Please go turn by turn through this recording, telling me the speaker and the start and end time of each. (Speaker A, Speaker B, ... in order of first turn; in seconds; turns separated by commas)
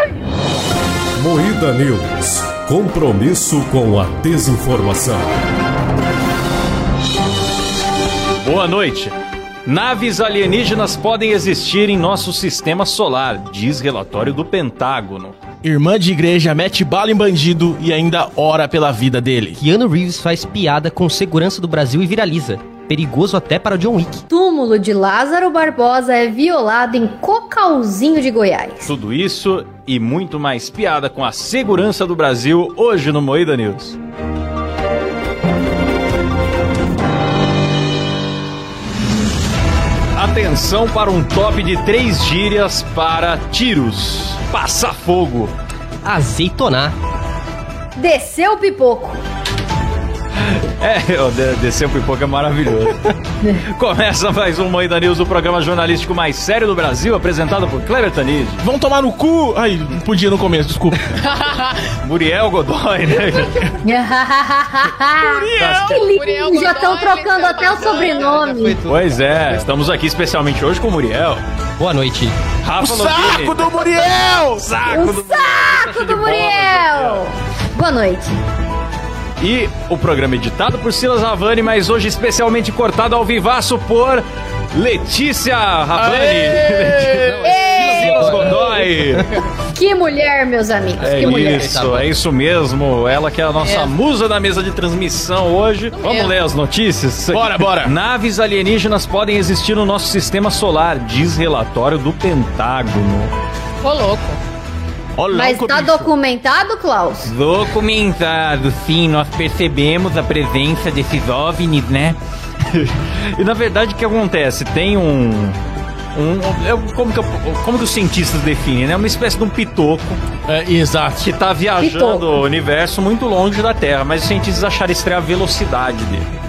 Speaker A: 1.2-5.3, Speaker B: 8.4-9.1, Speaker B: 9.7-15.4, Speaker C: 15.6-19.6, Speaker D: 19.6-24.2, Speaker E: 24.3-28.9, Speaker B: 28.9-34.0, Speaker B: 40.2-45.5, Speaker D: 46.0-46.9, Speaker E: 48.0-49.2, Speaker B: 50.4-58.6, Speaker C: 58.6-61.2, Speaker F: 61.3-61.8, Speaker B: 62.0-63.8, Speaker E: 63.8-68.8, Speaker C: 65.2-66.1, Speaker F: 65.6-68.5, Speaker D: 68.2-69.2, Speaker B: 68.9-71.4, Speaker D: 71.8-72.4, Speaker B: 72.6-77.2, Speaker C: 72.8-74.7, Speaker E: 74.9-78.4, Speaker B: 79.4-89.4, Speaker C: 86.0-87.1, Speaker D: 87.1-89.2, Speaker E: 87.4-88.8, Speaker E: 89.7-91.7, Speaker D: 91.0-92.2, Speaker B: 91.0-103.3, Speaker F: 93.6-93.9, Speaker F: 95.9-96.4, Speaker C: 97.3-97.9, Speaker F: 103.8-104.4, Speaker C: 105.2-106.1, Speaker E: 105.3-107.3, Speaker B: 107.2-112.2, Speaker B: 112.7-115.6, Speaker B: 116.1-120.2, Speaker C: 120.5-121.3, Speaker B: 121.2-126.3, Speaker E: 121.8-122.4